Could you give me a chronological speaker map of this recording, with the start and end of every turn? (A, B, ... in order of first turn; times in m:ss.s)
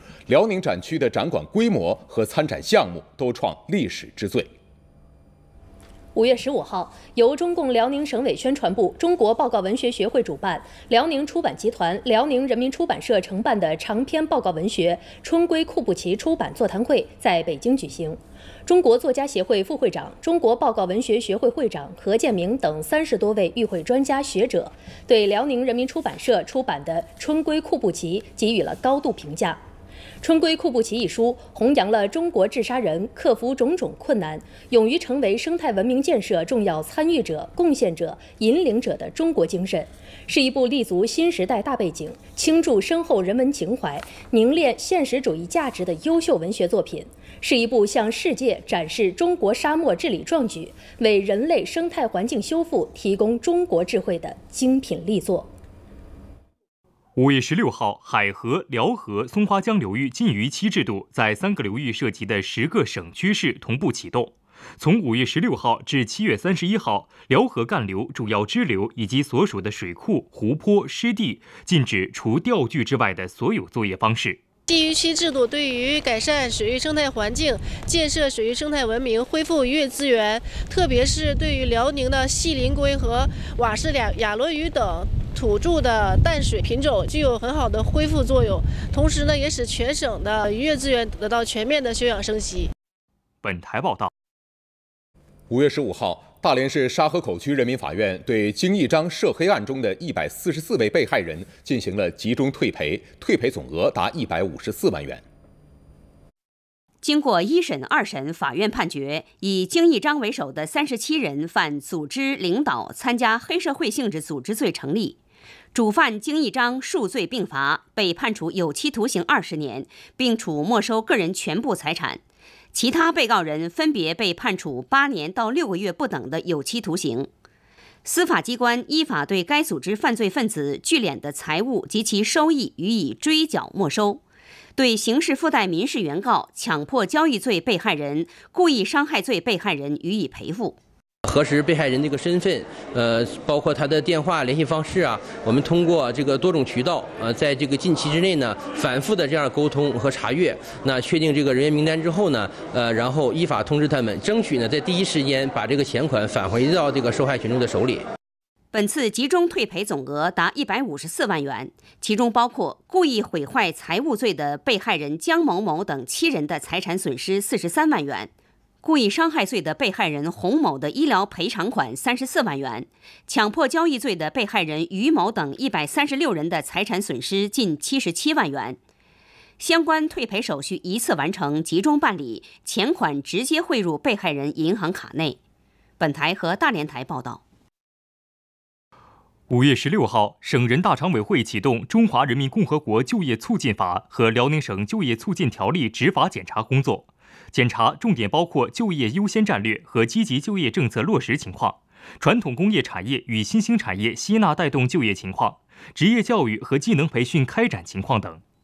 0:00.3-0:04.5 A
0:06.1-0:29.6 B
0:30.2-0:55.5 B
0:57.2-1:14.4 C
1:14.7-1:32.7 D
1:33.4-1:34.1 C
1:35.5-1:45.2 A
1:47.0-1:55.2 E
1:55.7-2:02.2 E
2:02.7-2:07.3 E
2:08.0-2:14.2 E
2:14.8-2:20.8 E
2:21.2-2:38.1 F
2:38.7-2:48.3 E
2:48.8-2:58.8 E
2:59.6-3:05.4 E
3:06.0-3:07.4 E
3:09.5-3:28.4 C